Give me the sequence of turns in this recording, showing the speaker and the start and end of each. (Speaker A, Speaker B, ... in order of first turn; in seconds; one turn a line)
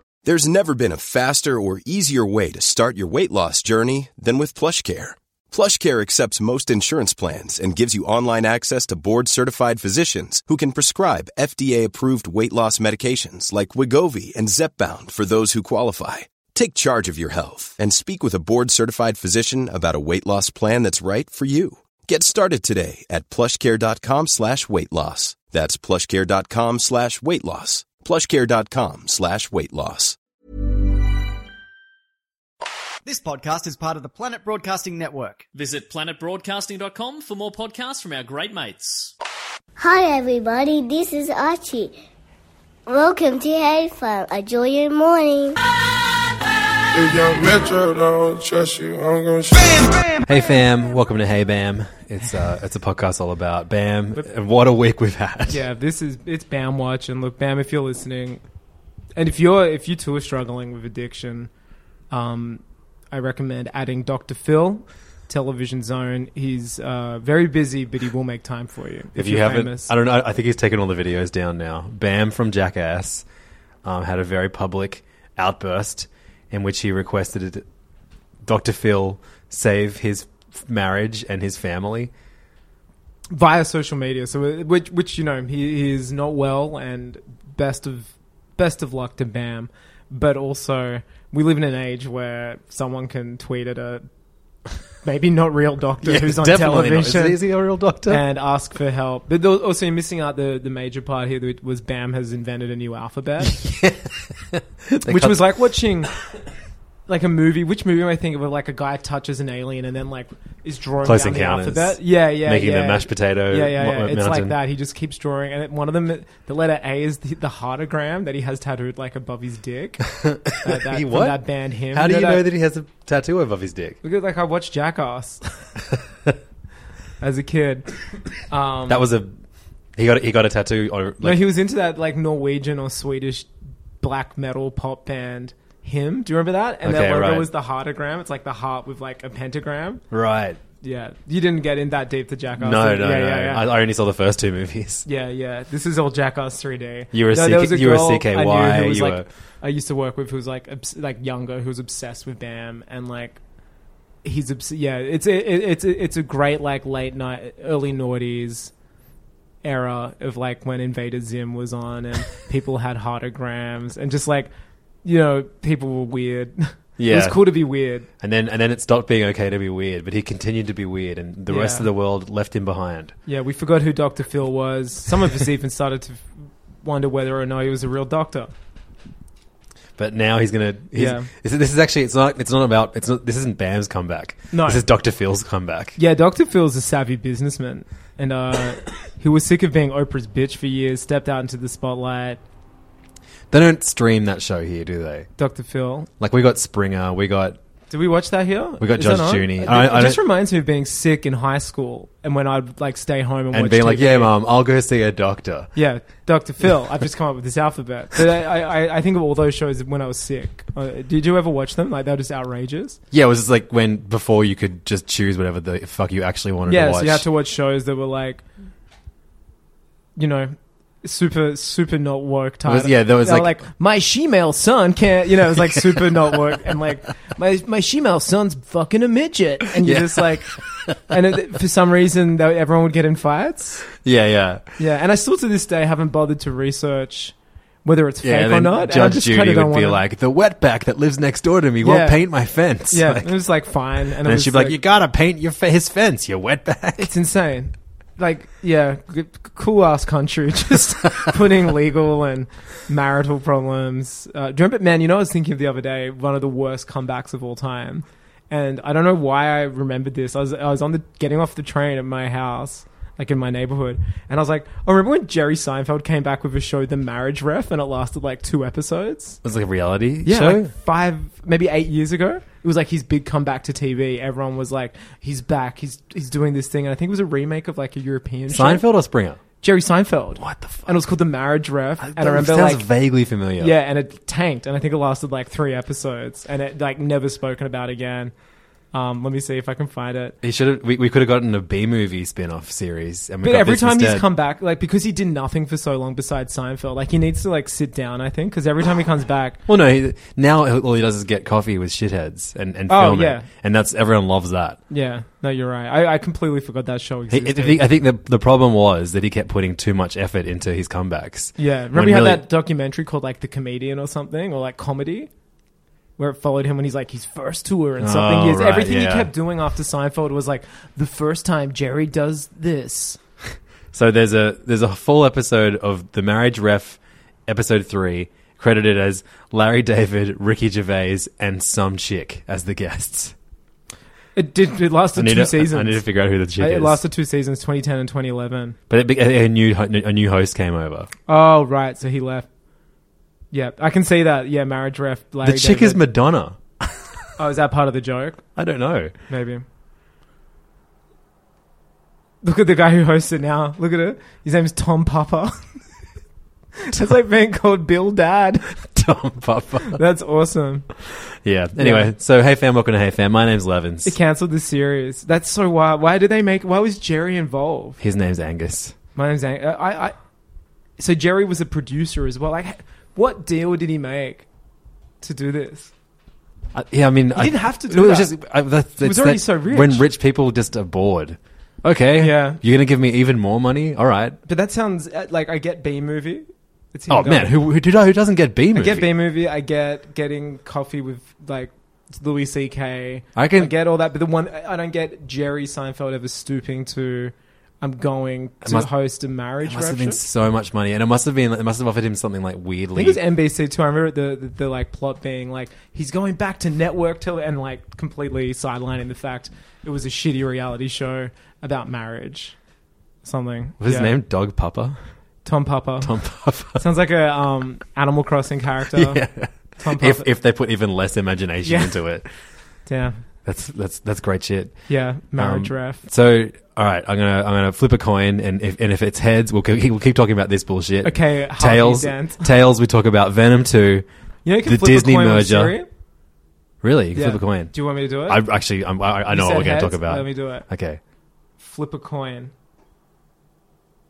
Speaker A: 0.2-30.2
Speaker B: 33.0-35.5
Speaker C: 35.5-39.1
Speaker D: 39.8-42.0
Speaker D: 42.9-45.6
Speaker E: 46.9-50.1
Speaker F: 50.2-55.6
Speaker G: 55.5-58.4
Speaker G: 59.1-61.5
Speaker G: 62.1-69.9
Speaker F: 69.2-73.2
Speaker F: 73.8-77.6
Speaker F: 78.4-82.1
Speaker G: 83.3-94.0
Speaker G: 95.0-97.4
Speaker F: 96.0-98.2
Speaker G: 98.1-103.6
Speaker F: 103.4-105.5
Speaker G: 105.0-106.1
Speaker G: 107.1-122.5
Speaker F: 111.0-114.6
Speaker F: 120.2-124.0
Speaker G: 124.0-125.6
Speaker G: 127.2-127.9
Speaker G: 128.5-129.1
Speaker F: 128.9-129.3
Speaker F: 129.9-131.5
Speaker G: 131.2-133.5
Speaker G: 134.0-140.0
Speaker F: 136.8-137.5
Speaker F: 140.1-140.6
Speaker G: 140.8-143.7
Speaker F: 142.6-145.1
Speaker G: 145.1-153.4
Speaker F: 147.1-149.3
Speaker G: 154.2-158.7
Speaker G: 159.6-164.5
Speaker G: 165.0-168.1
Speaker F: 167.0-167.4
Speaker F: 168.2-173.2
Speaker G: 171.5-171.9
Speaker G: 173.2-178.5
Speaker F: 180.0-186.0
Speaker G: 180.9-181.3
Speaker G: 184.5-184.8
Speaker G: 185.9-192.4
Speaker F: 193.5-195.3
Speaker G: 195.4-196.1
Speaker F: 196.2-197.6
Speaker G: 197.9-204.3
Speaker F: 198.8-200.2
Speaker F: 203.5-205.7
Speaker G: 205.7-213.0
Speaker F: 213.1-217.3
Speaker G: 216.7-218.4
Speaker G: 220.2-233.9
Speaker F: 222.6-223.5
Speaker F: 229.8-230.3
Speaker F: 234.0-234.7
Speaker G: 234.8-240.0
Speaker F: 238.2-243.3
Speaker G: 241.8-242.3
Speaker G: 242.9-244.8
Speaker F: 244.2-247.1
Speaker G: 247.0-269.4
Speaker F: 269.4-270.7
Speaker G: 270.2-278.9
Speaker F: 278.5-279.4
Speaker G: 279.6-282.9
Speaker F: 280.4-281.0
Speaker F: 282.0-283.8
Speaker G: 283.6-288.3
Speaker G: 288.9-290.4
Speaker F: 290.4-294.3
Speaker G: 293.4-299.6
Speaker F: 299.7-304.8
Speaker G: 302.9-303.5
Speaker G: 304.9-307.8
Speaker F: 307.3-312.4
Speaker G: 311.6-315.3
Speaker G: 316.2-323.2
Speaker F: 318.0-319.3
Speaker F: 323.9-333.3
Speaker G: 334.4-336.1
Speaker F: 335.1-337.0
Speaker G: 336.6-338.8
Speaker F: 338.9-341.1
Speaker G: 341.3-342.5
Speaker G: 343.5-346.0
Speaker F: 345.4-347.2
Speaker G: 347.4-348.4
Speaker F: 348.6-349.1
Speaker G: 349.3-349.6
Speaker G: 352.4-355.6
Speaker G: 356.8-358.7
Speaker F: 358.8-360.0
Speaker G: 359.9-360.9
Speaker F: 361.0-364.1
Speaker G: 361.8-362.1
Speaker G: 364.0-368.0
Speaker F: 368.0-368.9
Speaker G: 369.1-370.1
Speaker G: 371.0-374.4
Speaker G: 375.2-375.9
Speaker F: 376.7-384.4
Speaker G: 377.4-378.3
Speaker G: 379.0-380.1
Speaker G: 382.2-382.6
Speaker G: 384.4-387.5
Speaker F: 387.1-389.1
Speaker G: 388.7-400.2
Speaker F: 393.4-393.7
Speaker F: 398.6-398.9
Speaker F: 399.6-403.2
Speaker G: 402.9-412.6
Speaker G: 413.2-414.1
Speaker F: 413.8-415.0
Speaker G: 415.4-416.2
Speaker F: 416.0-416.8
Speaker G: 416.7-419.2
Speaker F: 418.9-422.3
Speaker G: 419.8-420.3
Speaker G: 421.6-422.0
Speaker G: 422.9-423.2
Speaker F: 423.4-424.8
Speaker G: 424.9-426.0
Speaker F: 425.3-434.1
Speaker G: 431.0-432.5
Speaker G: 434.4-435.9
Speaker F: 434.6-435.8
Speaker F: 436.8-441.0
Speaker G: 437.1-438.4
Speaker G: 439.3-440.6
Speaker G: 441.6-442.5